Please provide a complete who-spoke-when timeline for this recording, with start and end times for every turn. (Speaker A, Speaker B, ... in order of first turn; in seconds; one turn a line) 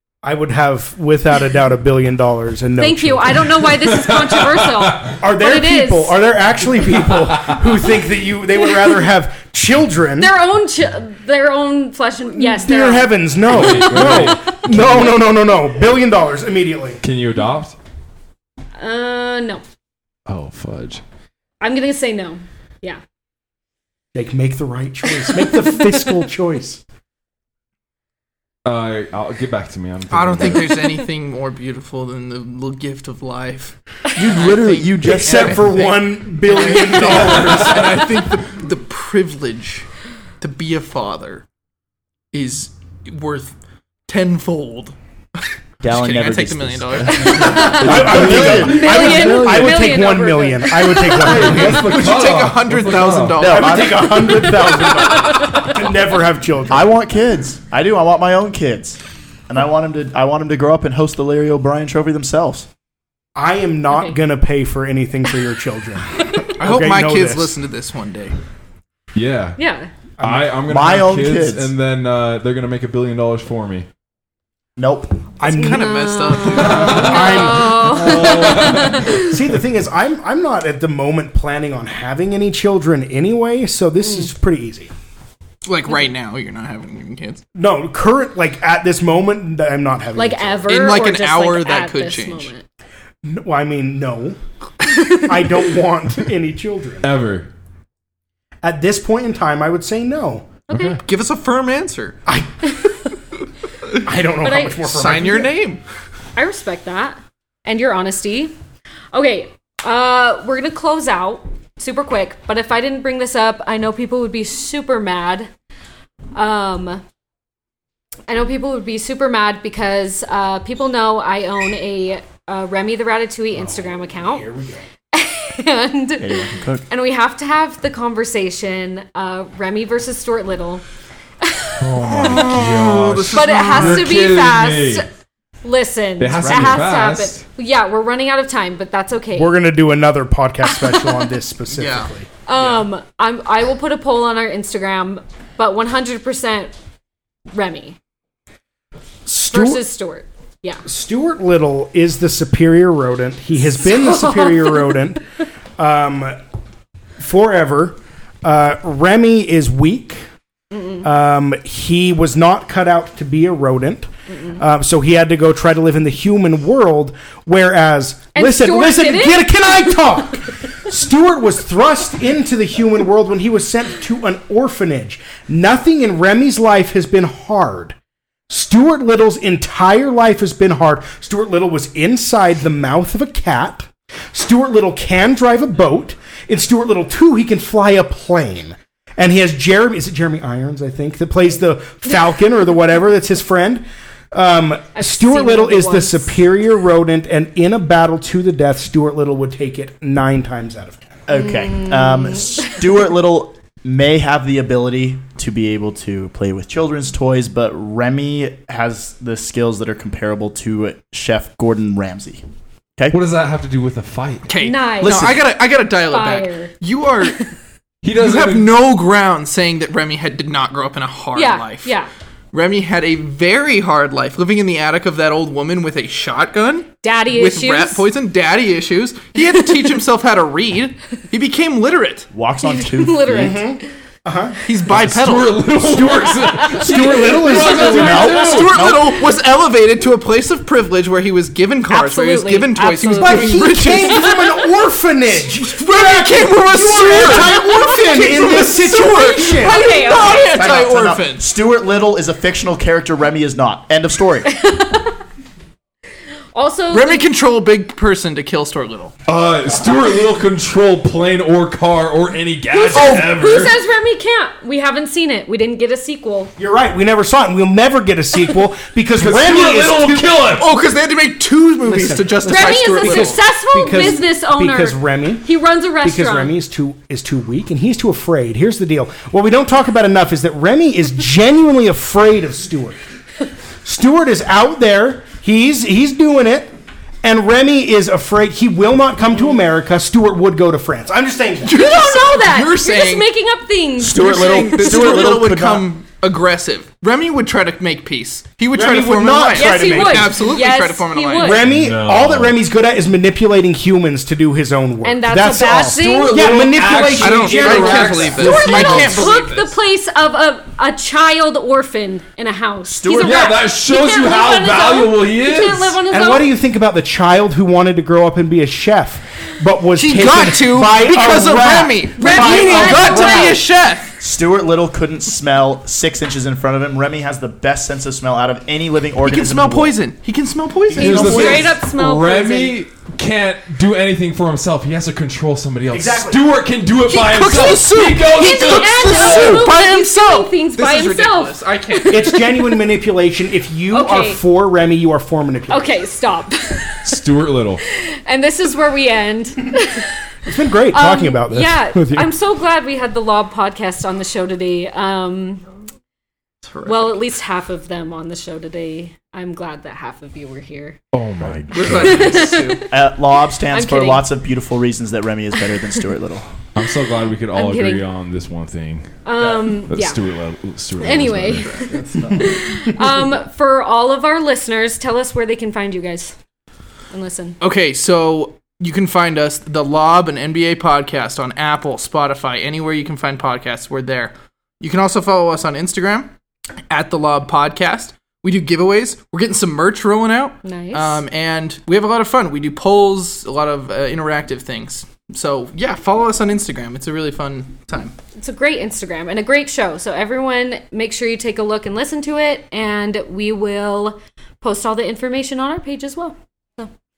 Speaker A: 0.2-3.7
Speaker B: 2.8-6.2
Speaker A: 5.2-10.3
Speaker B: 8.6-9.1
Speaker B: 10.2-14.3
Speaker A: 12.3-17.0
Speaker C: 13.5-15.1
Speaker C: 17.0-17.8
Speaker B: 18.8-19.6
Speaker C: 20.3-21.0
Speaker B: 21.6-23.0
Speaker A: 24.1-26.8
Speaker C: 28.6-30.8
Speaker D: 30.1-39.9
Speaker E: 34.2-35.8
Speaker A: 35.0-38.1
Speaker D: 40.4-41.5
Speaker D: 42.3-43.5
Speaker D: 44.1-45.0
Speaker E: 45.8-49.3
Speaker D: 45.9-47.7
Speaker B: 47.1-51.9
Speaker A: 47.7-52.2
Speaker C: 48.2-49.6
Speaker C: 51.3-53.6
Speaker D: 51.5-54.8
Speaker E: 53.4-54.2
Speaker A: 53.4-56.9
Speaker B: 54.3-55.7
Speaker E: 56.7-62.7
Speaker A: 63.4-67.5
Speaker B: 63.9-64.2
Speaker D: 66.6-68.4
Speaker C: 69.1-69.6
Speaker B: 69.6-69.9
Speaker A: 70.2-70.5
Speaker C: 70.2-73.9
Speaker E: 70.7-71.7
Speaker E: 74.8-75.2
Speaker A: 75.4-75.9
Speaker B: 75.5-79.3
Speaker D: 75.5-77.5
Speaker A: 76.6-84.9
Speaker C: 76.6-77.2
Speaker C: 77.9-79.1
Speaker B: 84.0-84.3
Speaker D: 85.6-87.4
Speaker A: 87.5-90.7
Speaker B: 90.2-92.7
Speaker D: 90.7-92.5
Speaker A: 93.2-94.4
Speaker B: 94.8-95.2
Speaker A: 95.1-97.2
Speaker C: 97.0-97.5
Speaker A: 98.6-100.6
Speaker B: 100.7-101.0
Speaker D: 101.0-102.2
Speaker A: 102.3-102.8
Speaker A: 104.0-105.5
Speaker B: 104.4-104.8
Speaker D: 104.8-105.8
Speaker B: 106.3-108.5
Speaker B: 109.1-115.5
Speaker B: 116.3-117.0
Speaker B: 118.3-124.5
Speaker A: 123.5-124.9
Speaker B: 125.1-130.8
Speaker E: 126.2-126.8
Speaker B: 131.4-131.8
Speaker C: 131.8-135.1
Speaker D: 132.0-134.1
Speaker B: 133.3-135.1
Speaker B: 135.6-139.6
Speaker C: 136.2-137.4
Speaker E: 136.4-136.9
Speaker A: 139.3-142.3
Speaker B: 140.6-141.3
Speaker D: 141.7-142.9
Speaker B: 142.4-146.7
Speaker B: 147.5-148.0
Speaker A: 149.3-149.8
Speaker B: 149.5-150.8
Speaker A: 150.8-155.2
Speaker B: 153.6-155.0
Speaker A: 155.8-156.4
Speaker A: 157.2-160.2
Speaker B: 160.7-161.1
Speaker A: 161.0-177.9
Speaker B: 164.3-164.6
Speaker B: 168.3-169.8
Speaker A: 178.5-201.2
Speaker B: 194.9-196.4
Speaker E: 201.3-212.4
Speaker B: 201.4-202.6
Speaker C: 213.1-214.5
Speaker D: 214.5-217.5
Speaker B: 214.6-215.4
Speaker E: 215.0-215.4
Speaker B: 215.9-216.7
Speaker C: 218.0-218.7
Speaker D: 218.2-221.9
Speaker B: 221.3-222.1
Speaker D: 222.5-232.3
Speaker B: 227.0-228.0
Speaker E: 232.3-233.6
Speaker B: 232.6-233.9
Speaker A: 233.3-234.6
Speaker D: 234.7-235.6
Speaker C: 234.9-238.7
Speaker A: 236.0-238.7
Speaker D: 237.0-244.3
Speaker E: 237.9-239.1
Speaker B: 241.9-244.6
Speaker A: 243.2-250.3
Speaker D: 245.5-251.5
Speaker B: 247.4-247.7
Speaker B: 249.5-250.8
Speaker E: 250.4-254.5
Speaker B: 254.5-255.2
Speaker B: 256.5-257.3
Speaker D: 256.9-259.1
Speaker C: 259.3-263.8
Speaker B: 262.7-266.5
Speaker A: 266.6-270.3
Speaker C: 269.2-270.7
Speaker D: 270.5-273.4
Speaker A: 271.9-275.5
Speaker B: 272.5-276.6
Speaker A: 276.0-283.0
Speaker A: 283.8-286.7
Speaker A: 287.2-291.7
Speaker D: 291.6-293.3
Speaker B: 291.7-295.3
Speaker E: 294.0-295.9
Speaker D: 294.1-301.6
Speaker A: 298.7-300.4
Speaker B: 299.5-301.6
Speaker A: 301.4-309.3
Speaker C: 301.6-302.6
Speaker B: 305.0-307.1
Speaker C: 305.9-309.0
Speaker D: 307.2-309.8
Speaker B: 307.8-316.5
Speaker E: 312.9-313.6
Speaker C: 313.2-316.0
Speaker A: 316.1-323.6
Speaker D: 319.9-324.1
Speaker B: 322.2-323.6
Speaker E: 324.2-330.0
Speaker D: 329.2-331.6
Speaker E: 330.9-331.8
Speaker C: 331.0-339.6
Speaker B: 331.0-332.8
Speaker A: 335.9-336.4
Speaker D: 337.1-342.4
Speaker B: 338.3-342.7
Speaker A: 342.1-345.9
Speaker B: 343.9-344.4
Speaker B: 345.7-347.2
Speaker C: 347.1-347.8
Speaker B: 347.8-350.2
Speaker A: 350.5-352.3
Speaker B: 350.9-355.7
Speaker D: 356.6-357.2
Speaker B: 356.9-361.0
Speaker C: 361.1-362.5
Speaker E: 361.4-362.2
Speaker D: 361.7-362.8
Speaker B: 361.9-362.9
Speaker E: 362.9-366.5
Speaker B: 363.7-364.3
Speaker C: 366.8-371.8
Speaker B: 367.5-368.1
Speaker B: 369.2-370.2
Speaker B: 371.0-376.4
Speaker D: 371.6-372.2
Speaker E: 371.9-372.6
Speaker B: 377.1-377.6
Speaker D: 377.6-386.3
Speaker D: 386.9-398.1
Speaker B: 390.6-391.2
Speaker B: 398.4-406.9